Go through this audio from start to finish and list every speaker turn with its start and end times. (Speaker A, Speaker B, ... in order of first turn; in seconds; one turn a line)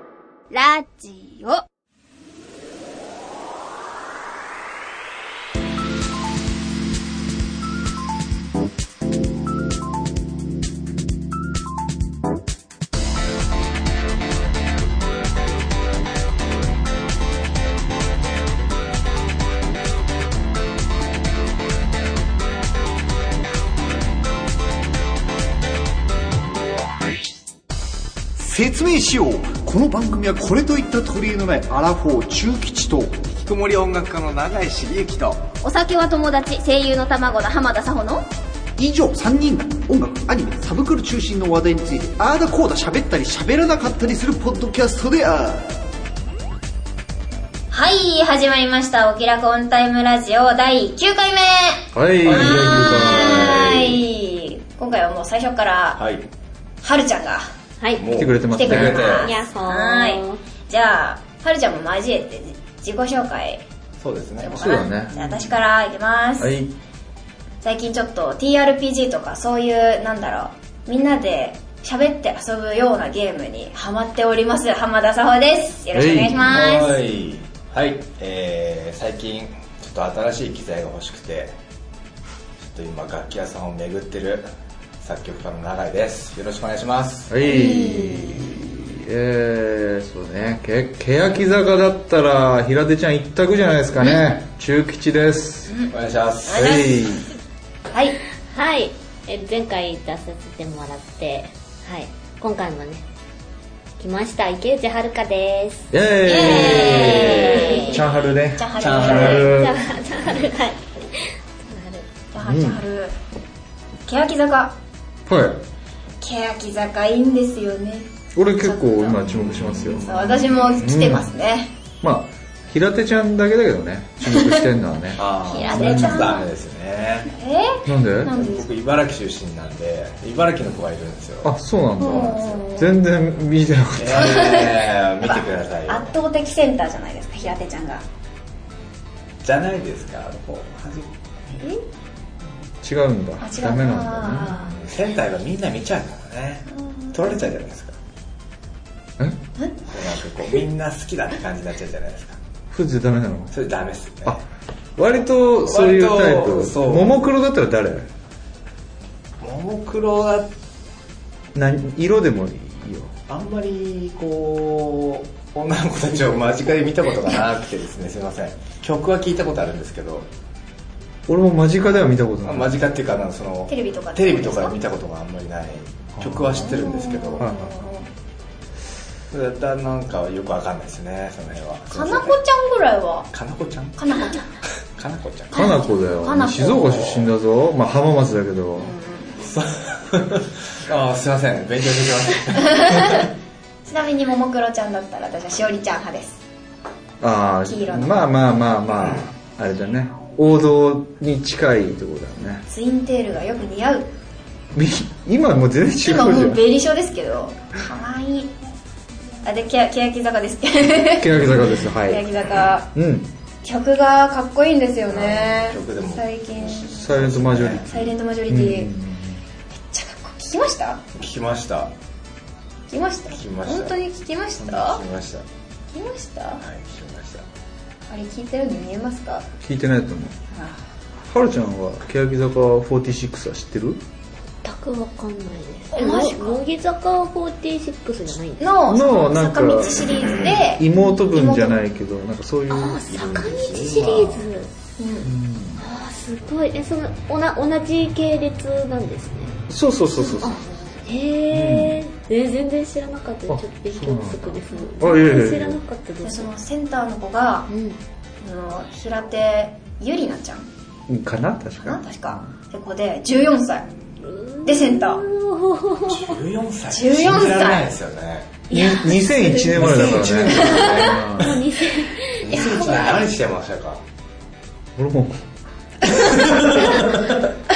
Speaker A: 0.5-1.6
Speaker B: 28.4-33.2
Speaker C: 33.3-35.4
Speaker A: 35.6-38.3
Speaker B: 38.8-45.8
Speaker A: 47.7-56.0
Speaker D: 51.9-53.9
Speaker C: 52.2-54.0
Speaker C: 56.0-56.3
Speaker A: 56.8-57.5
Speaker E: 57.8-58.1
Speaker C: 58.0-59.3
Speaker D: 58.1-59.1
Speaker A: 58.5-63.6
Speaker E: 59.2-60.4
Speaker C: 64.0-65.6
Speaker A: 64.4-66.6
Speaker D: 64.6-65.1
Speaker D: 66.4-66.7
Speaker A: 67.6-77.0
Speaker D: 75.9-76.8
Speaker C: 76.4-81.5
Speaker C: 82.6-84.5
Speaker C: 85.0-87.3
Speaker D: 87.3-95.7
Speaker A: 87.4-88.4
Speaker A: 95.7-95.9
Speaker C: 95.9-96.9
Speaker A: 96.4-97.2
Speaker D: 96.5-97.3
Speaker A: 97.9-98.2
Speaker E: 98.5-103.0
Speaker E: 104.0-108.0
Speaker D: 105.9-109.8
Speaker A: 106.2-109.6
Speaker C: 106.6-107.3
Speaker C: 108.8-109.6
Speaker E: 109.3-112.0
Speaker A: 112.3-113.1
Speaker D: 112.4-112.8
Speaker A: 114.0-114.8
Speaker D: 115.3-115.6
Speaker A: 116.2-121.7
Speaker D: 118.3-121.3
Speaker C: 119.2-120.8
Speaker D: 122.0-126.4
Speaker A: 124.2-124.7
Speaker C: 125.1-127.3
Speaker A: 125.4-126.5
Speaker A: 127.3-128.7
Speaker D: 127.8-128.3
Speaker C: 128.3-131.5
Speaker D: 131.4-134.5
Speaker A: 132.0-133.0
Speaker C: 132.2-132.4
Speaker C: 133.9-136.1
Speaker A: 134.1-138.0
Speaker C: 139.4-141.1
Speaker A: 141.5-141.8
Speaker D: 142.8-144.6
Speaker A: 143.4-144.7
Speaker C: 144.2-147.9
Speaker A: 146.7-147.4
Speaker A: 149.6-149.8
Speaker C: 149.8-152.4
Speaker D: 152.7-153.5
Speaker C: 153.5-154.4
Speaker D: 155.0-158.1
Speaker C: 155.6-157.2
Speaker C: 159.4-160.5
Speaker D: 161.5-163.1
Speaker C: 163.3-170.3
Speaker D: 171.3-172.8
Speaker C: 172.4-177.5
Speaker A: 173.7-174.7
Speaker D: 176.2-176.5
Speaker A: 176.5-178.1
Speaker D: 177.4-177.7
Speaker C: 179.3-182.4
Speaker A: 181.9-183.3
Speaker C: 183.3-184.0
Speaker A: 183.9-184.4
Speaker C: 184.6-185.8
Speaker A: 185.5-187.2
Speaker D: 185.5-188.9
Speaker C: 186.8-187.3
Speaker A: 188.8-189.4
Speaker C: 189.4-193.2
Speaker A: 192.6-193.2
Speaker A: 193.8-196.4
Speaker D: 197.2-202.6
Speaker A: 197.6-198.3
Speaker A: 202.7-204.1
Speaker D: 204.7-206.6
Speaker A: 206.0-208.5
Speaker A: 209.4-212.9
Speaker D: 211.2-212.3
Speaker D: 212.9-213.3
Speaker A: 213.6-218.9
Speaker C: 215.1-218.1
Speaker D: 216.9-219.4
Speaker A: 219.7-221.0
Speaker C: 221.1-221.9
Speaker A: 222.9-225.0
Speaker C: 223.3-223.9
Speaker C: 224.6-225.4
Speaker A: 225.9-226.6
Speaker C: 226.6-227.4
Speaker A: 228.1-229.5
Speaker D: 229.6-230.3
Speaker A: 230.5-230.8
Speaker D: 231.3-234.0
Speaker E: 234.6-238.6
Speaker A: 235.9-236.6
Speaker A: 238.6-241.8
Speaker D: 238.9-244.4
Speaker E: 242.7-244.7
Speaker C: 243.1-244.4
Speaker A: 245.0-245.3
Speaker D: 245.2-245.8
Speaker E: 245.8-249.6
Speaker D: 249.7-250.6
Speaker E: 250.2-256.5
Speaker D: 251.5-252.0
Speaker D: 253.5-255.8
Speaker A: 256.2-257.7
Speaker E: 257.7-258.0
Speaker A: 258.4-260.7
Speaker D: 261.1-262.4
Speaker A: 261.8-263.9
Speaker E: 264.2-266.4
Speaker A: 264.6-265.2
Speaker C: 266.1-268.6
Speaker A: 266.9-267.9
Speaker D: 268.7-271.6
Speaker E: 268.7-269.1
Speaker A: 268.8-269.8
Speaker C: 269.7-271.3
Speaker A: 270.3-271.3
Speaker E: 271.4-273.0
Speaker C: 272.4-274.0
Speaker A: 272.5-273.3
Speaker D: 274.9-275.4
Speaker C: 276.1-277.4